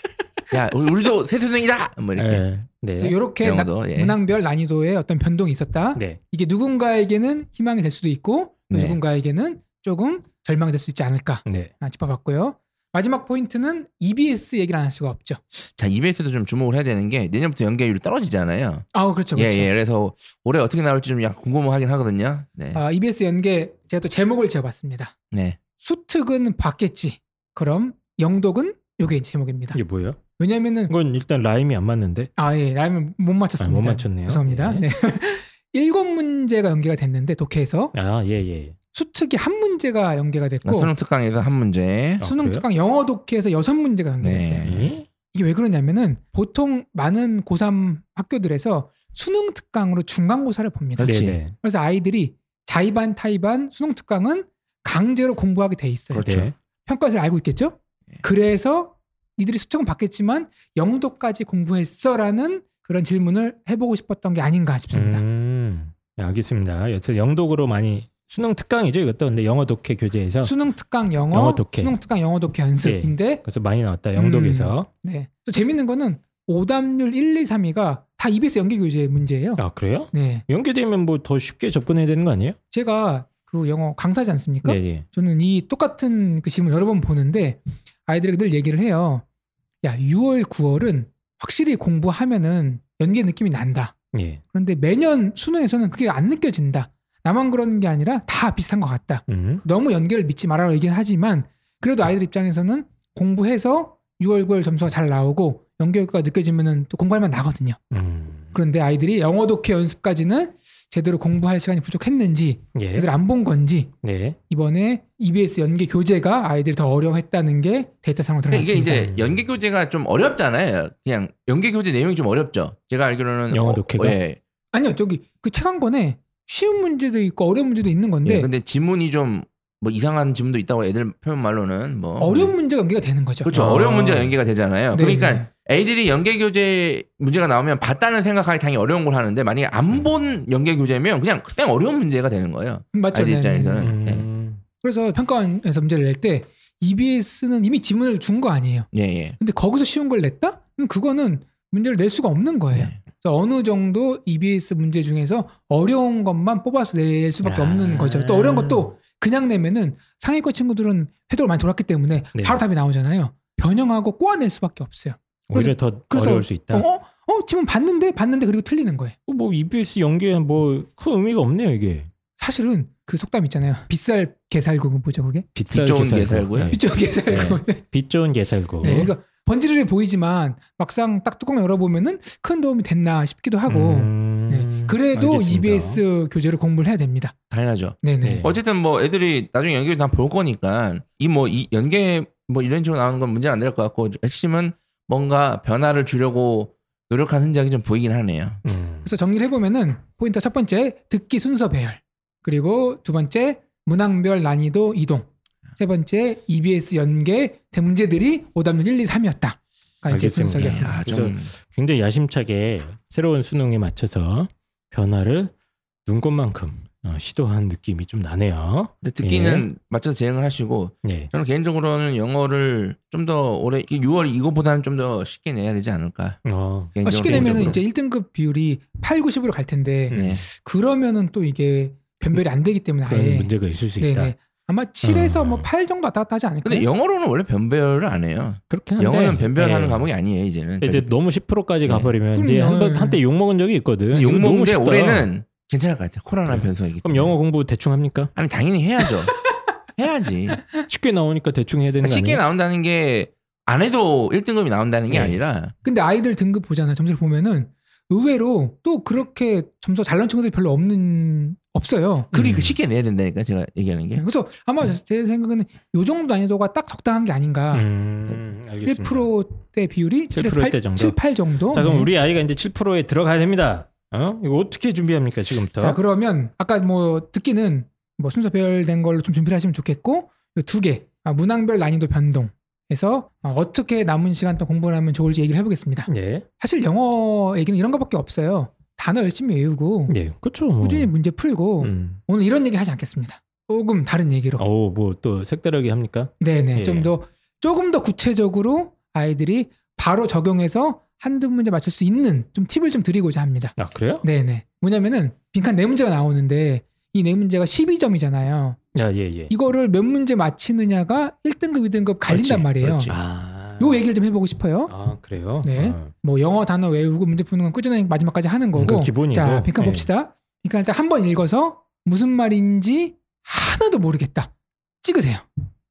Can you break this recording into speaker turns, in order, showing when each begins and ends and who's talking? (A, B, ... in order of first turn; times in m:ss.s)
0:00.5-0:02.4 A
0:02.2-0:03.1 B
0:03.0-0:15.4 C
0:03.4-0:04.2 A
0:08.7-0:09.0 A
0:11.4-0:11.7 B
0:15.8-0:22.8 A
0:18.9-0:19.7 C
0:22.7-0:25.1 C
0:25.3-0:25.6 A
0:25.8-0:29.8 C
0:29.7-0:30.2 B
0:30.4-0:30.9 C
0:30.9-0:32.3 B
0:32.4-0:37.9 C
0:33.6-0:34.8 B
0:37.9-0:38.8 B
0:38.9-0:40.9 C
0:40.6-0:42.2 A
0:42.2-0:42.6 B
0:42.2-0:44.7 C
0:44.2-0:44.9 A
0:44.6-0:45.1 B
0:45.3-0:56.3 C
0:51.0-0:51.4 A
0:51.0-0:51.5 B
0:56.1-0:56.5 A
0:56.2-0:56.5 B
0:56.8-1:05.2 C
1:04.9-1:10.5 B
1:10.4-1:13.4 C
1:11.3-1:11.9 B
1:12.8-1:14.9 B
1:14.1-1:20.4 C
1:19.6-1:22.6 B
1:22.7-1:29.2 C
1:24.6-1:25.0 B
1:29.8-1:33.9 C
1:34.1-1:34.4 B
1:34.5-1:47.8 C
1:39.3-1:39.6 B
1:47.9-1:48.5 B
1:48.5-1:53.9 C
1:52.7-1:53.1 B
1:54.0-1:54.4 B
1:54.5-1:59.0 C
1:58.5-2:04.4 A
1:58.8-1:59.4 B
2:03.5-2:04.2 B
2:04.7-2:08.5 C
2:08.2-2:12.5 A
2:12.2-2:13.8 C
2:13.4-2:24.2 A
2:13.5-2:14.3 B
2:14.9-2:15.5 C
2:22.9-2:23.9 C
2:23.8-2:24.6 B
2:24.8-2:49.2 C
2:28.9-2:29.4 A
2:37.4-2:38.9 B
2:42.3-2:42.6 B
2:45.5-2:46.8 B
2:49.3-2:52.1 B
2:52.4-2:55.5 C
2:55.5-2:59.1 B
2:55.7-2:56.8 A
2:56.7-2:57.8 C
2:58.8-3:07.3 C
3:03.7-3:06.0 B
3:07.5-3:18.6 A
3:08.0-3:08.4 C
3:08.2-3:08.6 B
3:18.6-3:19.1 B
3:19.0-3:31.0 C
3:30.1-3:35.5 B
3:30.5-3:31.5 A
3:36.0-3:39.7 B
3:39.0-3:46.4 A
3:41.0-3:41.3 B
3:46.4-3:47.8 B
3:46.9-3:47.8 A
3:47.0-3:56.9 C
3:50.1-3:50.4 B
3:50.1-3:50.4 A
3:53.1-3:54.3 B
3:55.0-3:55.7 B
3:56.6-4:01.1 A
3:58.7-4:00.1 B
4:00.8-4:05.3 B
4:01.8-4:02.1 A
4:02.3-4:03.2 C
4:04.1-4:07.3 A
4:06.4-4:08.3 B
4:08.4-4:09.4 A
4:10.0-4:10.6 A
4:10.9-4:12.4 B
4:12.0-4:15.7 A
4:15.1-4:15.4 B
4:15.8-4:22.3 C
4:22.3-4:22.8 B
4:22.3-4:24.2 A
4:24.2-4:27.9 C
4:27.7-4:29.3 B
4:28.8-4:32.1 C
4:30.3-4:31.2 B
4:31.7-4:36.0 B
4:35.8-4:50.2 C
4:46.1-4:46.4 B
4:50.1-4:51.1 B
4:50.8-4:54.6 C
4:51.8-4:52.2 B
4:54.6-4:57.1 B
4:56.4-5:08.8 C
5:03.8-5:04.2 B
5:08.9-5:09.5 B
5:09.5-5:13.2 C
5:12.3-5:13.2 A
5:13.1-5:14.0 B
5:13.8-5:14.9 C
5:14.9-5:16.1 B
5:15.6-5:24.5 C
5:18.7-5:20.1 B
5:25.0-5:25.4 C